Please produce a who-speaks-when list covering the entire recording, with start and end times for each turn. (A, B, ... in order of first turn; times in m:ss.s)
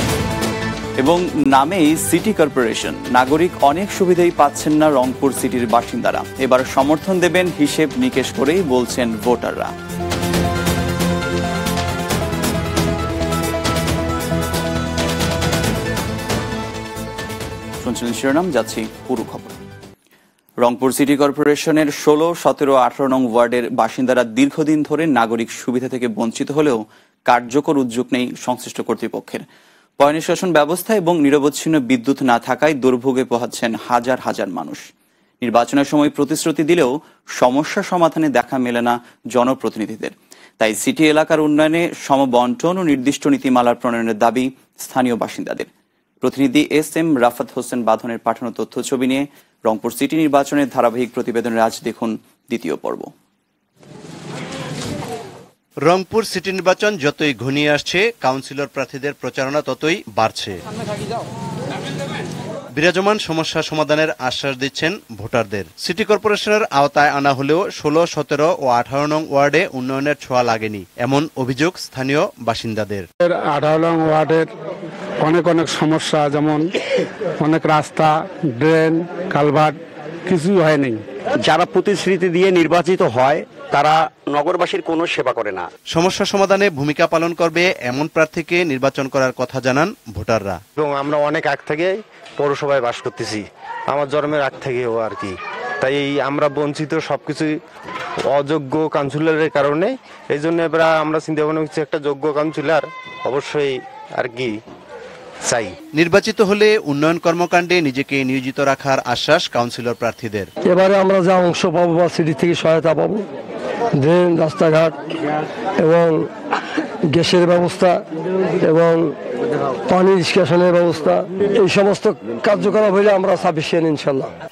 0:01.0-0:09.7 A
0:17.8-0:19.6 A
0:20.6-0:29.4 A
0:30.0-0:34.8 A
0:35.4-0:45.7 A
0:46.2-0:53.1 A
0:55.9-1:00.6 B
1:02.7-1:13.1 B
1:13.3-1:14.5 C
1:15.2-1:16.7 C
1:17.4-1:19.8 C
1:20.3-1:21.0 C
1:21.4-1:25.7 D
1:25.9-1:30.6 B
1:30.8-1:37.5 E
1:38.3-1:44.6 E
1:45.5-1:45.8 E
1:46.0-1:50.5 B
1:50.7-1:53.2 F
1:54.0-1:54.9 F
1:55.8-1:56.3 F
1:57.1-1:58.0 F
1:58.6-1:59.1 F
1:59.9-2:04.3 F